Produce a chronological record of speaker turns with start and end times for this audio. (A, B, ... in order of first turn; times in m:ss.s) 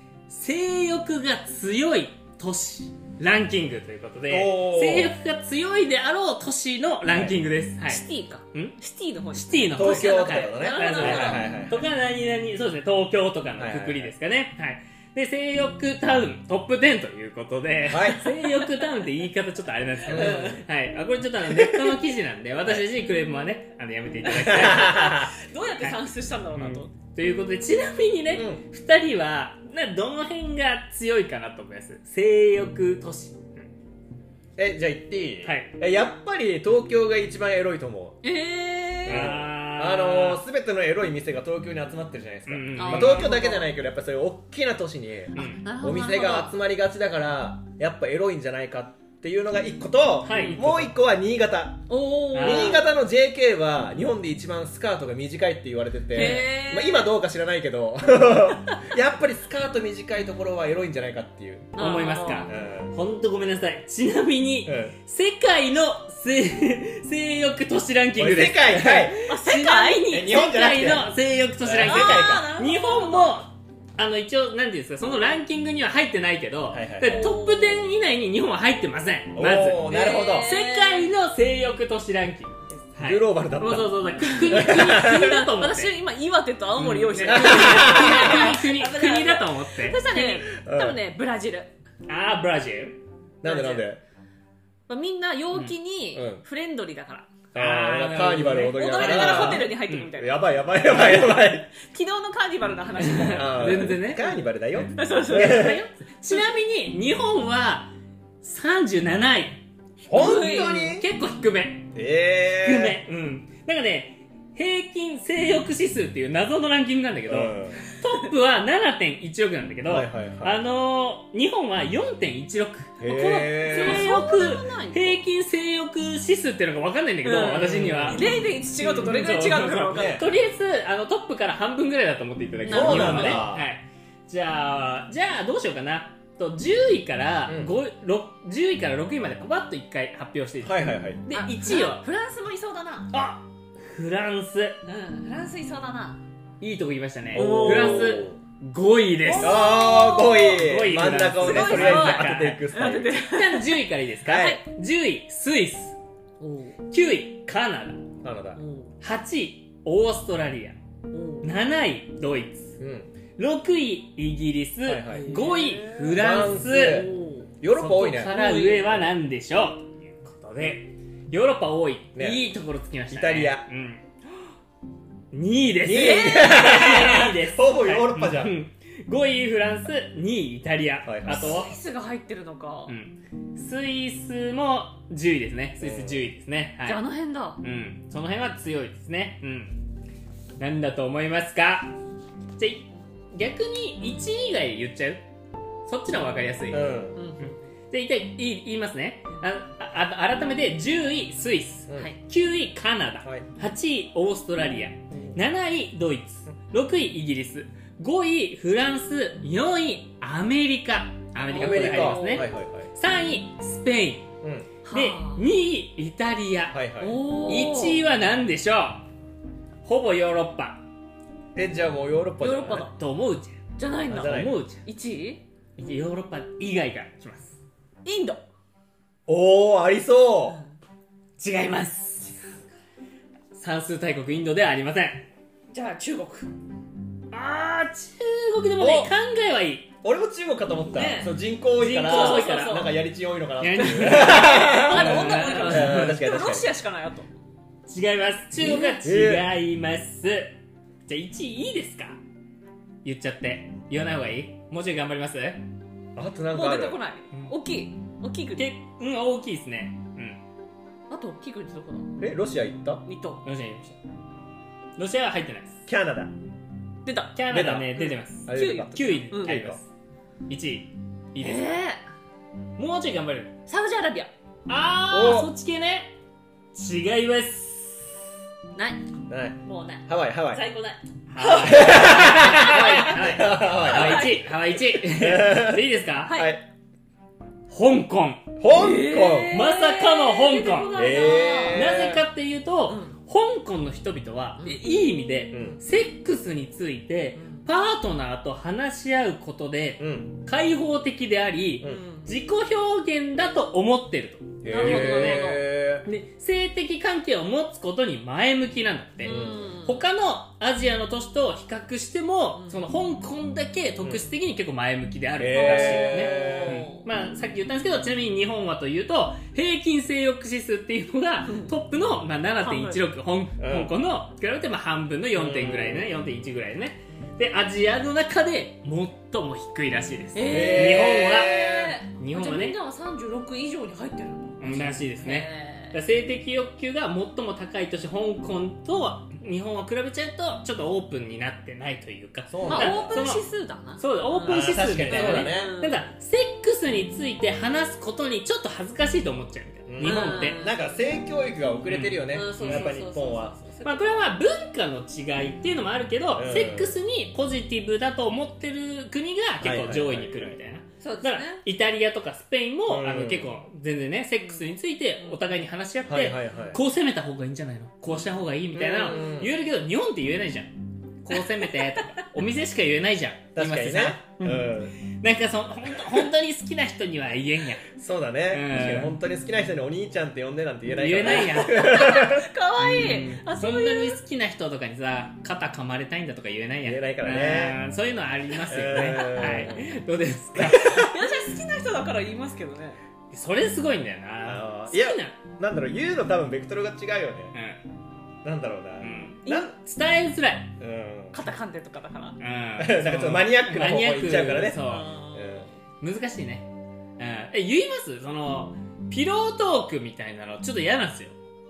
0:00.3-0:08.8 A
0:04.3-0:05.1 B
0:07.1-0:07.4 B
0:07.8-0:11.5 C
0:09.3-0:25.2 A
0:09.7-0:11.9 B
0:13.6-0:14.1 B
0:17.9-0:18.3 B
0:20.0-0:20.6 C
0:20.1-0:20.6 B
0:24.2-0:26.9 C
0:24.4-0:25.3 B
0:26.5-0:33.7 A
0:28.3-0:28.6 B
0:34.6-0:38.2 B
0:35.4-0:35.8 A
0:38.2-0:39.3 C
0:39.0-0:40.4 A
0:39.0-0:51.8 B
0:42.5-0:43.4 A
0:42.7-0:43.7 C
0:45.3-0:46.6 C
0:45.4-0:45.6 A
0:50.2-0:50.9 A
0:50.3-0:50.6 C
0:51.9-0:52.8 C
0:52.3-0:52.8 A
0:52.4-1:01.7 B
0:56.1-0:57.1 C
1:01.7-1:02.5 C
1:01.8-1:25.9 A
1:02.5-1:02.9 B
1:04.6-1:04.9 B
1:08.2-1:09.2 B
1:09.3-1:10.1 C
1:10.1-1:12.5 B
1:11.8-1:13.4 C
1:16.7-1:17.3 B
1:17.0-1:17.9 C
1:19.3-1:20.5 B
1:19.8-1:21.1 C
1:23.0-1:25.2 B
1:24.2-1:31.7 C
1:26.8-1:30.0 A
1:26.9-1:28.5 B
1:30.1-1:31.0 B
1:32.1-1:33.0 A
1:33.4-1:33.9 C
1:33.4-1:34.0 B
1:34.9-1:37.3 C
1:36.1-1:36.4 B
1:37.5-1:41.7 B
1:37.5-1:40.1 A
1:38.7-1:45.8 C
1:43.0-1:44.3 A
1:43.3-1:45.8 B
1:45.2-1:47.9 A
1:48.4-1:49.6 A
1:50.0-1:51.1 B
1:50.1-1:51.0 C
1:50.2-1:51.9 A
1:51.9-1:53.0 B
1:52.6-2:02.9 A
1:57.3-1:57.8 B
1:59.9-2:00.6 B
2:03.0-2:05.2 C
2:03.0-2:04.1 B
2:03.7-2:22.0 A
2:07.2-2:10.2 C
2:07.3-2:08.2 B
2:09.9-2:10.2 B
2:12.6-2:13.5 C
2:12.7-2:13.6 B
2:17.5-2:17.8 B
2:20.6-2:21.2 B
2:21.3-2:23.1 C
2:23.1-2:24.8 A
2:24.8-2:26.2 C
2:26.6-2:29.6 A
2:27.3-2:28.4 B
2:27.4-2:28.1 C
2:29.2-2:30.6 C
2:29.4-2:33.1 B
2:30.6-2:36.0 A
2:31.4-2:34.6 C
2:34.2-2:34.6 B
2:36.4-2:36.8 C
2:36.9-2:38.0 A
2:38.2-2:38.6 B
2:38.5-2:38.9 C
2:39.0-2:40.8 A
2:41.1-2:41.5 C
2:41.4-2:42.8 A
2:42.8-2:43.1 B
2:43.4-2:47.1 A
2:44.8-2:45.4 B
2:45.2-2:46.2 C
2:46.1-2:48.3 B
2:46.8-2:47.5 C
2:47.7-2:54.0 A
2:48.2-2:49.1 C
2:52.2-2:52.4 B
2:53.1-2:53.6 B
2:55.3-3:01.7 A
2:55.8-2:58.6 B
2:55.9-2:57.2 C
3:01.0-3:01.7 B
3:01.3-3:02.9 C
3:02.9-3:07.0 A
3:05.8-3:06.3 B
3:06.8-3:07.6 C
3:07.6-3:09.8 A
3:10.6-3:12.0 A
3:12.6-3:15.2 A
3:15.9-3:34.3 A
3:16.7-3:17.2 B
3:17.1-3:17.6 C
3:31.5-3:32.5 C
3:31.5-3:32.9 B
3:34.4-3:34.7 B
3:34.8-3:35.5 C
3:34.9-3:36.8 A
3:36.7-3:37.2 B
3:37.0-3:38.0 C
3:37.4-3:39.0 A
3:39.8-3:40.8 A
3:41.5-3:42.9 B
3:42.4-3:43.0 C
3:43.0-3:44.8 A
3:43.8-3:45.4 C
3:44.1-3:44.5 B
3:45.8-3:47.6 A
3:48.0-3:48.4 C
3:49.3-3:50.6 B
3:50.4-3:50.7 C
3:51.4-3:52.3 A
3:53.5-3:55.2 A
3:55.7-3:56.5 C
3:57.3-3:59.9 A
3:58.8-3:59.1 B
4:00.0-4:06.7 B
4:00.9-4:01.4 C
4:01.7-4:02.9 A
4:02.0-4:03.0 C
4:03.6-4:06.2 A
4:03.9-4:07.3 C
4:07.9-4:10.5 A
4:08.6-4:09.5 B
4:11.1-4:12.2 A
4:13.0-4:15.6 A
4:16.2-4:17.0 B
4:16.5-4:18.6 C
4:18.6-4:20.4 A
4:21.1-4:22.2 C
4:22.2-4:23.0 B
4:23.0-4:23.4 C
4:23.4-4:24.0 A
4:25.0-4:25.8 A
4:25.9-4:26.3 B
4:27.0-4:27.4 C
4:27.3-4:29.9 A
4:27.5-4:29.8 B
4:28.0-4:29.6 C
4:30.5-4:31.7 A
4:31.4-4:32.0 C
4:32.8-4:33.5 A
4:33.7-4:34.3 C
4:34.7-4:36.1 A
4:35.1-4:35.5 B
4:36.7-4:38.1 A
4:38.7-4:44.6 C
4:39.3-4:40.6 B
4:41.3-4:46.4 A
4:41.6-4:44.4 B
4:45.0-4:46.6 B
4:46.2-4:46.5 C
4:47.7-4:48.4 A
4:48.6-4:49.6 B
4:48.7-4:51.9 C
4:49.5-5:31.6 A
4:50.9-4:52.2 B
4:52.9-4:53.1 C
4:54.6-4:54.8 C
4:55.5-4:55.8 B
4:57.4-4:57.6 C
5:00.0-5:00.3 B
5:01.8-5:02.3 C
5:04.6-5:06.0 B
5:04.6-5:05.6 C
5:09.2-5:10.0 C
5:09.2-5:09.6 B
5:12.5-5:12.8 C
5:15.4-5:16.9 B
5:15.5-5:17.1 C
5:21.5-5:21.7 C
5:22.6-5:23.0 C
5:23.6-5:23.9 B
5:25.3-5:26.1 B
5:30.3-5:36.0 C
5:30.4-5:31.9 B
5:32.1-5:32.8 A
5:34.6-5:43.4 A
5:42.5-5:43.2 B
5:42.6-5:46.0 C
5:44.0-5:50.6 A
5:44.5-5:45.8 B
5:49.9-5:53.5 B
5:50.0-5:51.1 C
5:51.9-5:52.9 A
5:52.3-5:54.2 C
5:53.8-6:10.7 A
5:56.3-5:56.9 B
5:59.6-6:00.6 B
6:01.0-6:01.6 C
6:02.9-6:03.5 B
6:06.1-6:06.8 B
6:08.7-6:09.5 B
6:11.2-6:17.9 A
6:13.5-6:15.0 B
6:18.0-6:22.4 B
6:18.5-6:19.1 A
6:20.9-6:22.2 A
6:21.2-6:24.2 C
6:22.8-6:31.2 A
6:26.8-6:27.8 B
6:28.7-6:29.9 B
6:29.4-6:29.7 C
6:30.6-6:33.0 C
6:33.3-6:35.4 A
6:34.4-6:37.5 B
6:37.5-6:37.8 A
6:38.4-6:39.7 B
6:39.0-6:40.7 A
6:39.4-6:39.7 C
6:40.8-6:41.4 B
6:41.3-6:42.4 C
6:42.4-6:45.1 A
6:42.8-6:44.8 B
6:44.8-6:45.7 C
6:45.3-6:45.7 B
6:46.0-6:46.7 A
6:47.2-6:51.3 A